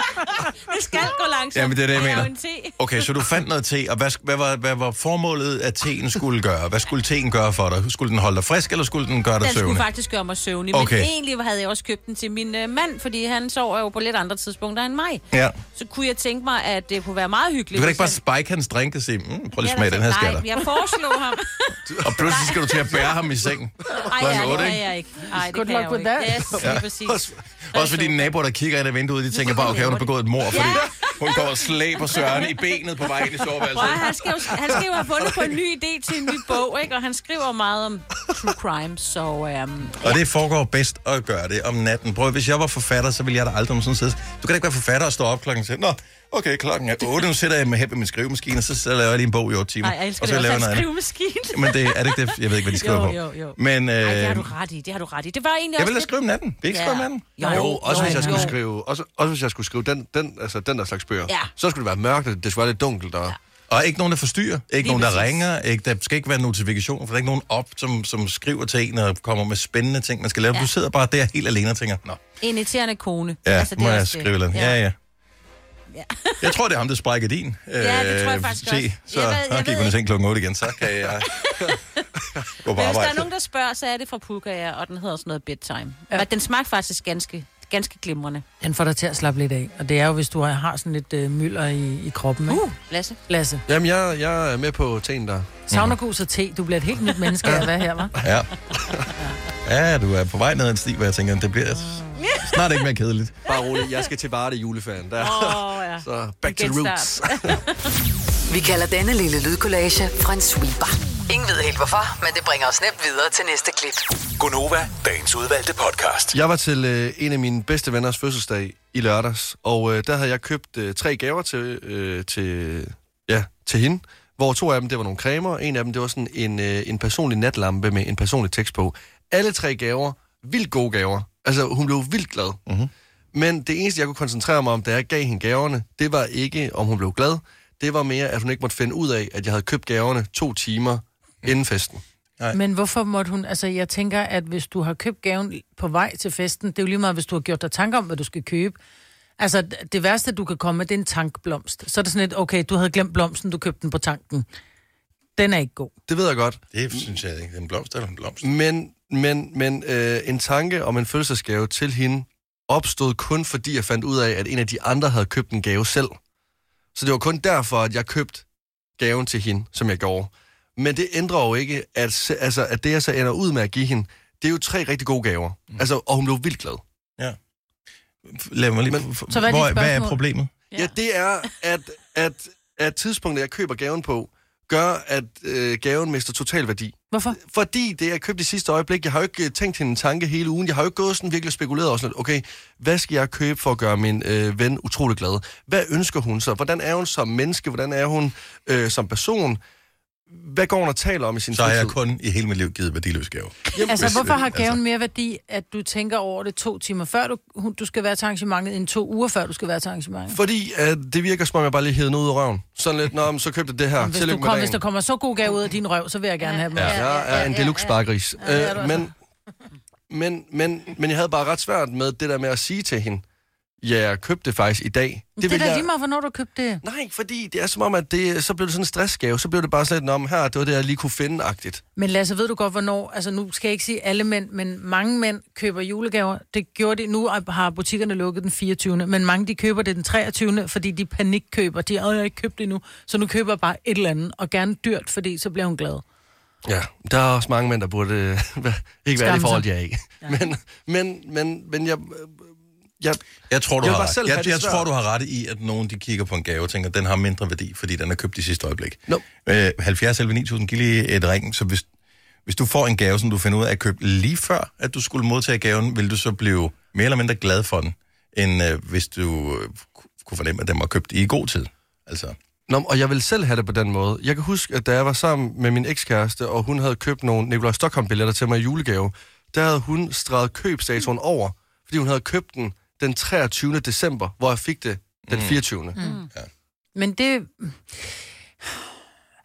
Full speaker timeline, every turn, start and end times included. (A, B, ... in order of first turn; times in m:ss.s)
0:00.6-0:02.8 A
0:01.5-0:09.8 B
0:09.4-0:15.2 A
0:10.7-0:11.1 B
0:15.3-0:15.6 B
0:15.8-0:18.2 A
0:17.7-0:20.5 B
0:19.6-0:22.9 A
0:21.9-0:22.5 C
0:22.0-0:24.8 B
0:24.0-0:28.3 A
0:25.4-0:26.6 D
0:26.6-0:26.9 B
0:27.0-0:27.4 C
0:27.7-0:34.3 B
0:29.3-0:31.5 A
0:32.0-0:32.6 A
0:33.7-0:40.2 A
0:40.0-0:50.9 B
0:49.8-0:56.1 A
0:51.5-0:54.5 B
0:55.8-0:57.6 B
0:56.6-0:58.6 A
0:57.4-0:58.5 D
0:57.4-1:03.4 C
1:03.7-1:12.2 B
1:04.8-1:05.4 A
1:12.4-1:14.8 A
1:13.4-1:15.0 B
1:15.9-1:16.5 A
1:16.4-1:21.5 B
1:17.8-1:19.9 A
1:21.3-1:22.0 A
1:22.6-1:23.3 B
1:22.7-1:28.4 A
1:28.6-1:32.7 D
1:32.5-1:33.2 A
1:33.3-1:33.6 D
1:33.7-1:35.6 C
1:35.7-1:36.0 B
1:35.7-1:38.1 D
1:38.2-1:38.5 B
1:39.6-1:43.4 B
1:42.2-1:42.6 A
1:43.5-1:47.6 C
1:45.2-1:47.8 A
1:48.5-1:54.0 E
1:54.4-1:56.4 F
1:56.3-2:12.6 C
2:12.7-2:12.9 B
2:13.3-2:22.0 C
2:22.5-2:28.8 D
2:29.4-2:34.5 D
2:35.4-2:35.9 D
2:36.1-2:37.1 C
2:36.7-2:38.5 B
2:38.4-2:46.2 C
2:47.0-2:48.4 C
2:49.0-2:56.8 C
2:58.3-3:00.5 B
2:59.3-3:00.2 D
3:00.7-3:19.6 C
3:07.1-3:07.4 D
3:20.3-3:21.9 C
3:21.5-3:24.8 B
3:23.7-3:24.1 C
3:23.9-3:30.4 D
3:30.3-3:34.8 C
3:34.0-3:37.5 D
3:36.4-3:38.0 A
3:36.9-3:39.1 C
3:38.4-3:39.1 D
3:40.1-3:43.2 C
3:43.8-3:45.9 C
3:45.4-3:46.8 D
3:46.8-3:51.8 C
3:52.0-4:06.0 D
4:06.6-4:13.2 C
4:09.2-4:09.7 D
4:13.5-4:21.9 B
4:13.8-4:14.9 C
4:22.5-4:32.4 B
4:32.7-4:46.0 C
4:45.3-4:45.6 B
4:46.0-4:46.2 D
4:46.0-4:46.3 A
4:47.0-4:48.1 D